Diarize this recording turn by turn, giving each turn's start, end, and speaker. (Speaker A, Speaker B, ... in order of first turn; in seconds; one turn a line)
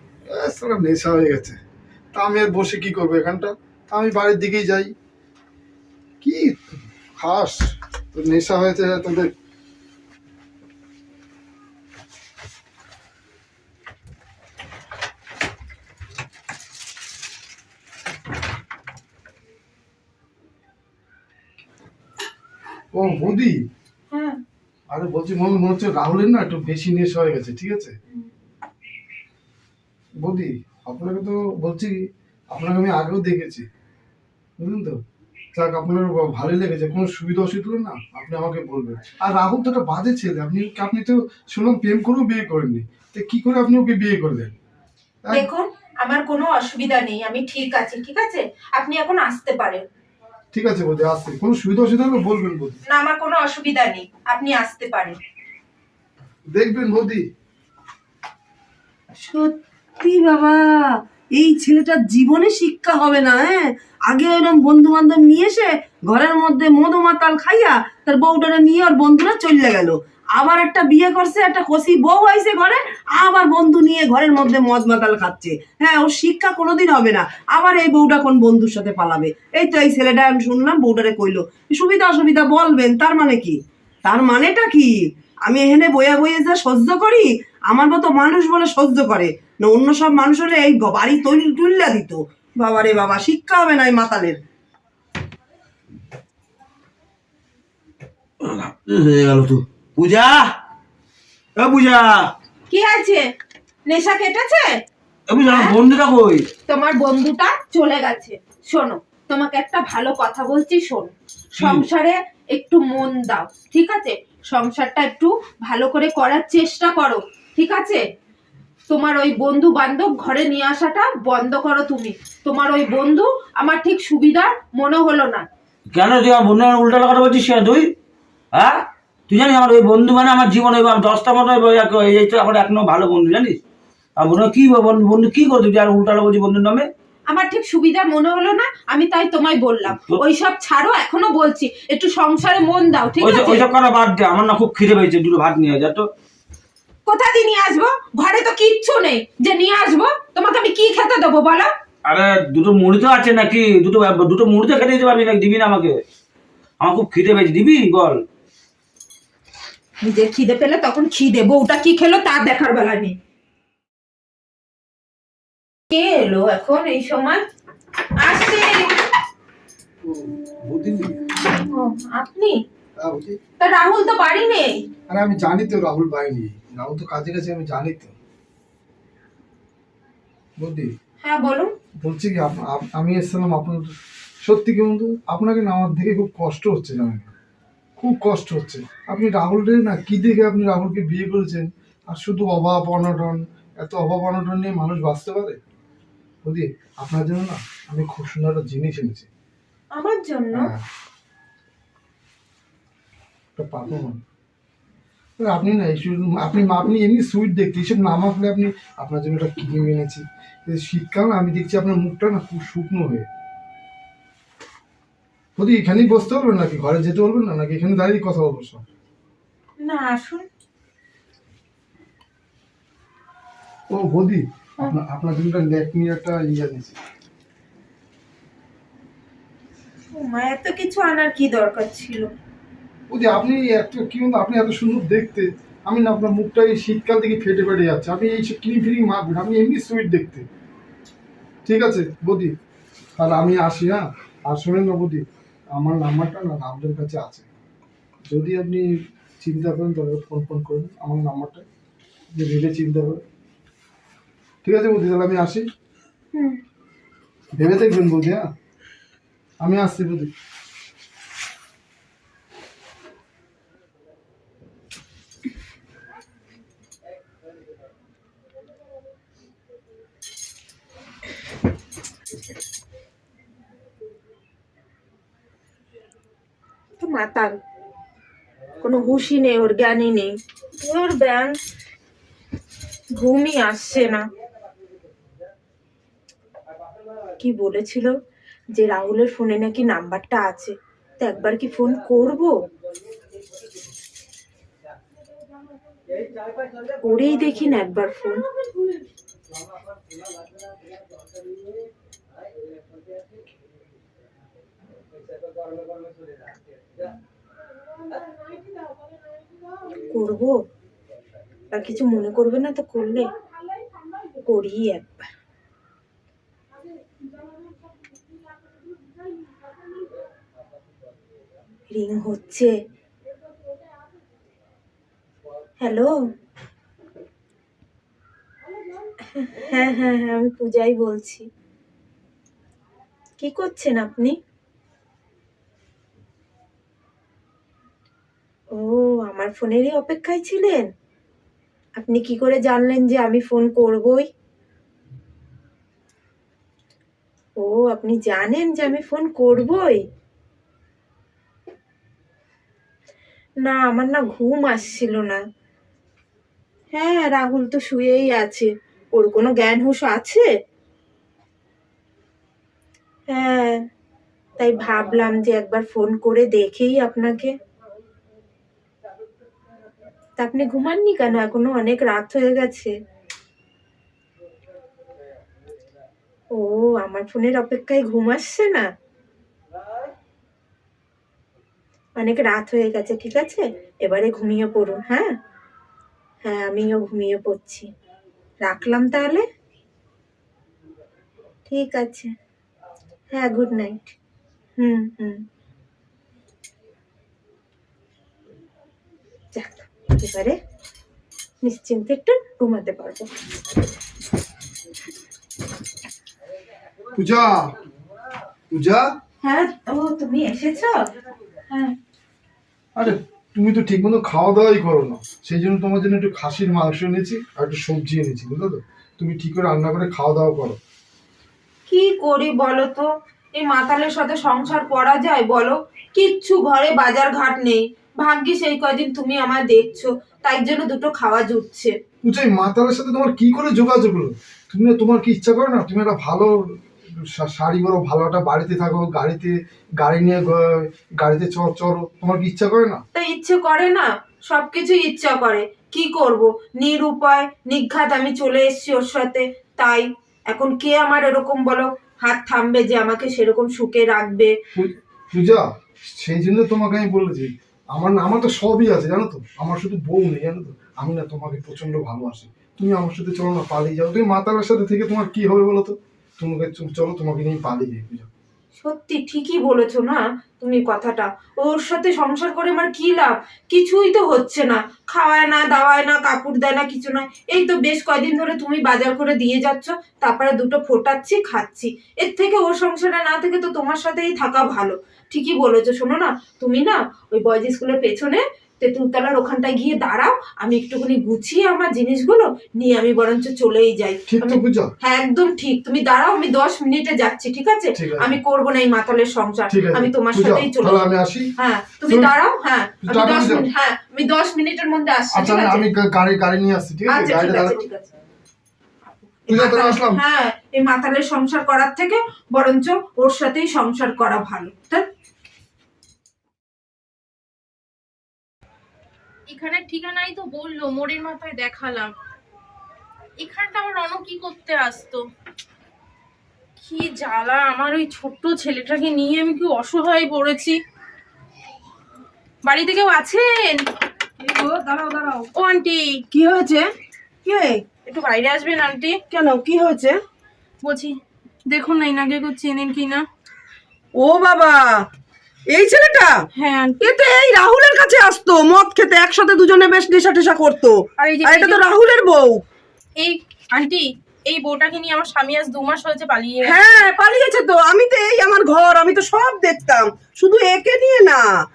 Speaker A: 0.2-1.6
Speaker A: 2.1-4.9
Speaker A: 6.2-9.3
Speaker A: 22.9-23.6
Speaker B: 24.1-24.4
Speaker A: 24.9-27.9
Speaker A: 30.2-33.6
Speaker A: 34.6-35.0
Speaker A: 35.5-44.5
Speaker B: 45.3-49.8
Speaker A: 50.5-52.8
Speaker B: 52.9-55.2
Speaker A: 56.5-57.3
Speaker C: 59.2-94.4
Speaker D: 98.4-100.5
Speaker D: 101.6-102.3
Speaker B: 102.7-103.3
Speaker B: 103.9-104.8
Speaker D: 105.3-106.5
Speaker B: 105.5-105.7
Speaker B: 106.7-118.0
Speaker D: 111.6-111.8
Speaker B: 118.9-125.5
Speaker D: 125.9-127.9
Speaker D: 128.5-133.6
Speaker D: 134.2-136.9
Speaker B: 137.3-143.6
Speaker D: 139.9-140.2
Speaker D: 143.2-146.1
Speaker B: 147.1-151.7
Speaker D: 152.0-156.0
Speaker D: 156.8-158.2
Speaker B: 160.0-163.2
Speaker B: 165.9-167.4
Speaker B: 168.2-168.9
Speaker A: 170.0-171.2
Speaker B: 171.5-172.6
Speaker A: 173.0-173.4
Speaker B: 173.6-174.8
Speaker A: 175.1-178.1
Speaker A: 180.6-180.9
Speaker B: 181.2-181.7
Speaker A: 182.0-183.9
Speaker A: 184.4-187.3
Speaker A: 188.0-195.6
Speaker A: 196.4-199.3
Speaker B: 199.9-200.7
Speaker A: 200.5-200.8
Speaker A: 203.6-204.2
Speaker A: 205.4-213.3
Speaker A: 215.6-218.8
Speaker B: 219.8-220.4
Speaker A: 223.9-227.0
Speaker B: 230.1-232.3
Speaker A: 233.1-240.5
Speaker A: 241.7-242.5
Speaker A: 243.2-247.4
Speaker A: 248.3-251.6
Speaker A: 252.3-253.2
Speaker A: 254.6-255.7
Speaker B: 256.3-256.6
Speaker A: 257.6-258.5
Speaker A: 259.6-260.3
Speaker B: 277.0-277.6
Speaker B: 278.8-281.5
Speaker B: 283.1-284.2
Speaker B: 287.4-288.1
Speaker B: 288.8-292.5
Speaker B: 297.0-298.4
Speaker B: 310.1-310.6
Speaker B: 311.7-313.3
Speaker B: 314.4-315.1
Speaker B: 321.9-322.7
Speaker B: 325.8-326.2
Speaker B: 329.3-331.4
Speaker B: 333.4-334.4
Speaker B: 338.8-340.9
Speaker B: 342.0-344.3
Speaker B: 347.6-350.0
Speaker B: 353.6-355.4
Speaker B: 356.9-360.5
Speaker B: 363.3-363.8
Speaker B: 364.6-367.5
Speaker B: 370.4-372.9
Speaker B: 376.5-378.9
Speaker B: 382.2-385.4
Speaker B: 386.4-387.9
Speaker B: 388.6-389.4
Speaker B: 391.7-392.3
Speaker B: 393.3-394.1
Speaker B: 394.8-395.4
Speaker B: 399.5-400.6
Speaker B: 401.6-403.3
Speaker A: 407.1-407.7
Speaker A: 408.7-409.1
Speaker B: 409.4-411.0
Speaker B: 411.7-411.9
Speaker A: 412.9-420.8
Speaker B: 421.9-431.9
Speaker A: 432.2-443.0
Speaker B: 443.1-454.5
Speaker A: 454.7-468.3
Speaker B: 468.8-501.0
Speaker A: 494.3-494.9
Speaker A: 497.9-498.4
Speaker A: 499.7-501.5
Speaker B: 501.6-505.8
Speaker A: 502.1-502.3
Speaker A: 503.0-503.7
Speaker A: 505.3-507.8
Speaker B: 507.1-508.1
Speaker A: 509.5-510.2
Speaker B: 509.5-515.0
Speaker E: 519.5-522.1
Speaker E: 523.4-525.2
Speaker E: 526.8-530.8
Speaker E: 532.6-533.9
Speaker C: 534.4-535.5
Speaker E: 535.5-536.2
Speaker C: 536.3-536.9
Speaker C: 537.4-537.8
Speaker E: 538.0-539.2
Speaker C: 539.3-540.2
Speaker E: 540.8-541.1
Speaker E: 541.7-543.2
Speaker C: 544.2-545.0
Speaker C: 545.7-546.3
Speaker E: 546.6-547.2
Speaker C: 547.0-552.6
Speaker E: 551.2-551.8
Speaker E: 553.2-557.0
Speaker C: 556.6-561.5